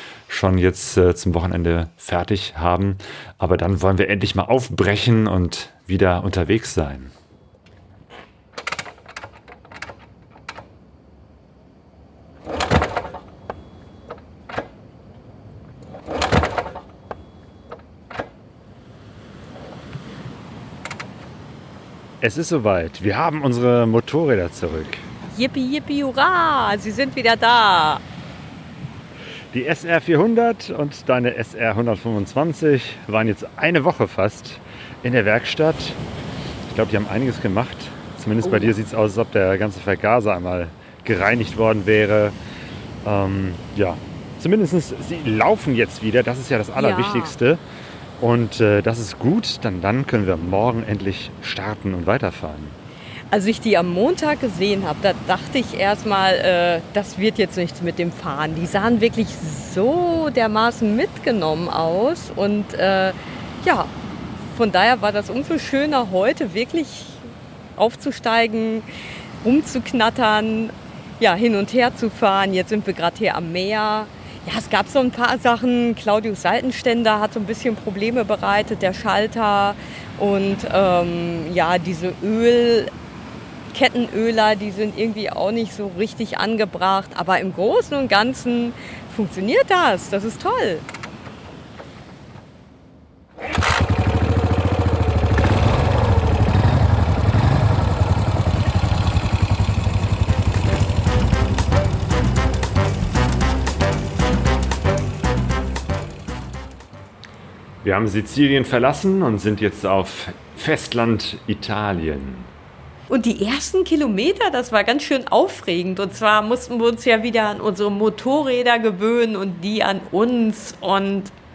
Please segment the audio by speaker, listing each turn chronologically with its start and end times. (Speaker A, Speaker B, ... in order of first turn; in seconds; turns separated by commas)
Speaker A: 0.3-7.1, Speaker A: 22.2-25.1, Speaker B: 25.3-28.0, Speaker A: 29.5-36.0, Speaker A: 36.7-42.4, Speaker B: 38.4-38.8, Speaker A: 43.0-47.6, Speaker B: 46.8-47.4, Speaker A: 48.2-52.8, Speaker B: 53.3-63.9, Speaker B: 64.5-68.9, Speaker B: 69.4-82.9, Speaker B: 83.7-90.8, Speaker A: 107.8-112.5, Speaker B: 113.1-121.3